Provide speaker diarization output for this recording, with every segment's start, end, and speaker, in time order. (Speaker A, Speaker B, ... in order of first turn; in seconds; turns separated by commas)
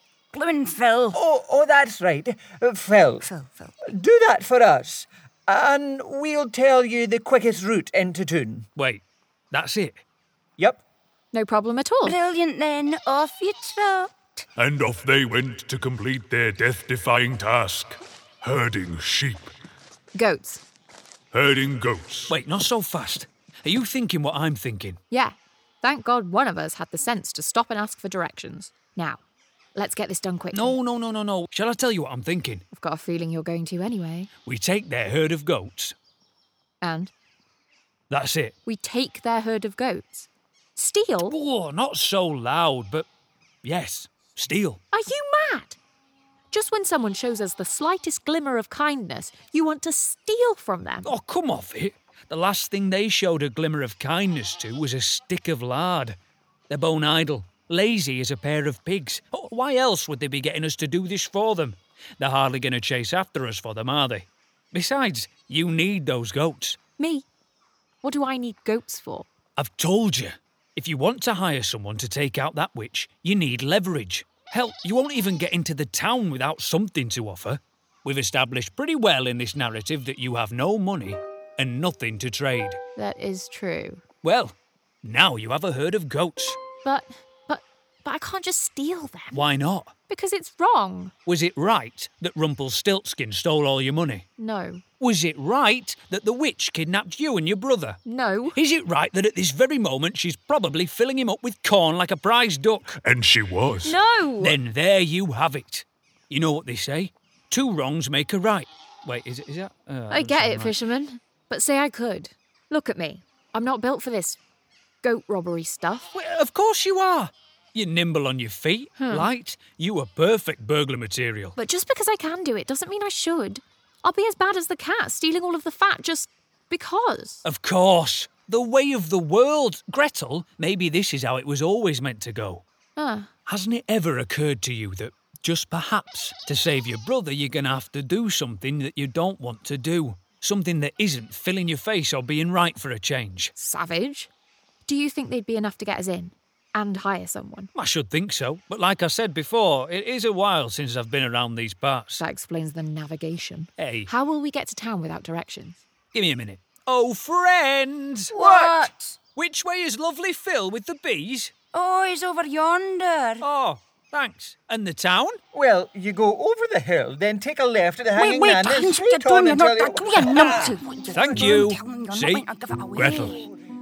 Speaker A: 0.3-1.2, Speaker B: 1.1-3.2, Speaker A: 3.2-3.7, Speaker B: 3.9-8.7, Speaker C: 8.8-10.0, Speaker D: 11.3-12.2, Speaker A: 12.0-14.4, Speaker E: 14.6-19.5, Speaker D: 20.1-20.6, Speaker E: 21.3-22.3, Speaker C: 22.3-25.0, Speaker D: 25.1-29.2, Speaker D: 29.7-30.8, Speaker C: 30.5-32.6, Speaker D: 32.7-34.3, Speaker C: 34.5-35.9, Speaker D: 36.8-37.1, Speaker C: 38.1-38.5, Speaker D: 38.6-41.4, Speaker C: 41.2-43.0, Speaker C: 43.6-44.8, Speaker D: 44.9-45.8, Speaker D: 46.5-51.1, Speaker C: 51.0-56.1, Speaker C: 56.7-66.8, Speaker D: 67.0-67.2, Speaker D: 68.0-69.3, Speaker C: 69.6-82.8, Speaker D: 83.0-84.0, Speaker C: 84.2-86.6, Speaker D: 86.8-89.4, Speaker C: 89.3-89.9, Speaker D: 90.1-91.1, Speaker C: 91.2-94.2, Speaker D: 94.4-94.8, Speaker C: 95.0-103.0, Speaker D: 98.0-98.5, Speaker E: 103.0-104.0, Speaker D: 103.8-104.6, Speaker C: 104.4-110.8, Speaker D: 110.1-114.4, Speaker D: 115.0-116.1, Speaker C: 116.1-121.6, Speaker D: 119.0-119.3, Speaker D: 121.5-127.4, Speaker C: 127.4-132.6, Speaker D: 132.9-133.3, Speaker C: 133.4-143.5, Speaker D: 143.5-144.3, Speaker D: 144.8-147.7, Speaker C: 147.7-152.2, Speaker D: 152.2-155.8, Speaker C: 153.8-154.1, Speaker C: 156.1-161.5, Speaker A: 158.3-159.2, Speaker A: 161.7-163.4, Speaker C: 163.4-165.4, Speaker B: 165.5-170.8, Speaker A: 168.1-173.4, Speaker C: 171.1-173.4